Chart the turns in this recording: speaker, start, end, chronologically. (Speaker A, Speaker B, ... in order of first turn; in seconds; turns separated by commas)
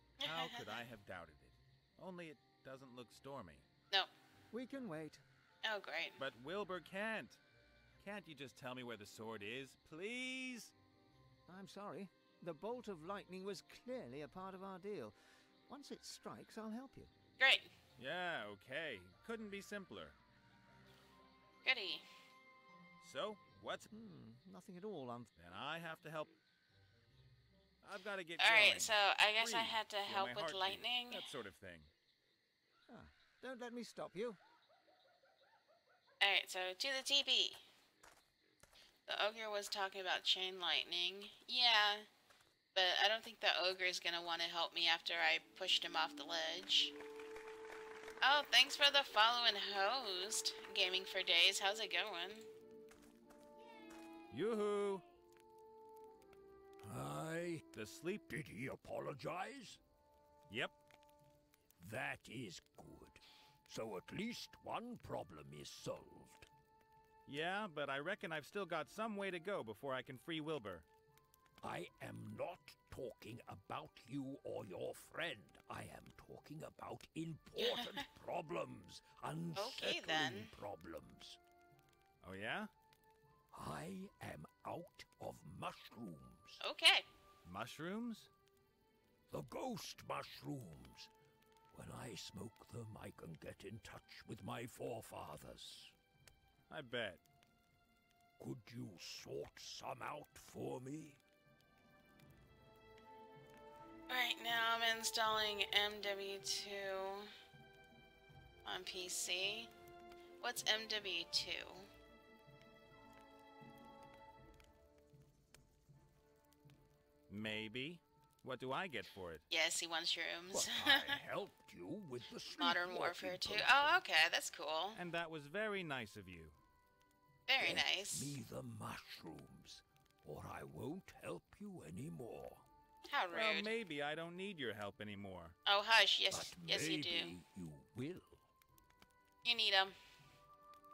Speaker A: 0.2-0.6, Speaker B: 0.2-3.6, Speaker C: 4.5-5.2, Speaker A: 5.6-6.2, Speaker B: 6.2-7.4, Speaker B: 8.0-10.7, Speaker C: 11.5-15.1, Speaker C: 15.7-17.1, Speaker A: 17.4-17.7, Speaker B: 18.0-20.2, Speaker A: 21.6-22.0, Speaker B: 23.0-23.9, Speaker C: 23.9-25.3, Speaker B: 25.4-26.3, Speaker B: 27.8-31.9, Speaker A: 28.4-31.2, Speaker C: 32.9-34.4, Speaker A: 36.2-37.6, Speaker A: 39.1-42.1, Speaker A: 42.7-46.9, Speaker A: 48.2-52.5, Speaker B: 54.3-55.0, Speaker D: 56.8-57.6, Speaker B: 57.7-58.3, Speaker D: 58.3-59.8, Speaker B: 60.5-60.7, Speaker D: 61.8-66.5, Speaker B: 67.2-70.9, Speaker D: 71.6-81.4, Speaker A: 77.6-78.0, Speaker A: 79.5-80.5, Speaker B: 82.2-82.7, Speaker D: 83.5-86.6, Speaker A: 86.6-87.0, Speaker B: 87.4-88.3, Speaker D: 89.3-91.1, Speaker D: 91.7-95.9, Speaker B: 96.7-97.2, Speaker D: 98.4-101.2, Speaker A: 104.1-107.3, Speaker A: 108.6-109.7, Speaker A: 110.4-111.9, Speaker B: 117.3-119.4, Speaker A: 119.5-121.2, Speaker D: 120.5-124.0, Speaker A: 122.5-125.0, Speaker B: 124.9-126.6, Speaker A: 127.5-128.4, Speaker D: 127.6-132.7, Speaker A: 133.1-133.7, Speaker B: 133.3-135.6, Speaker A: 135.7-137.3, Speaker D: 136.3-138.4, Speaker A: 139.4-139.9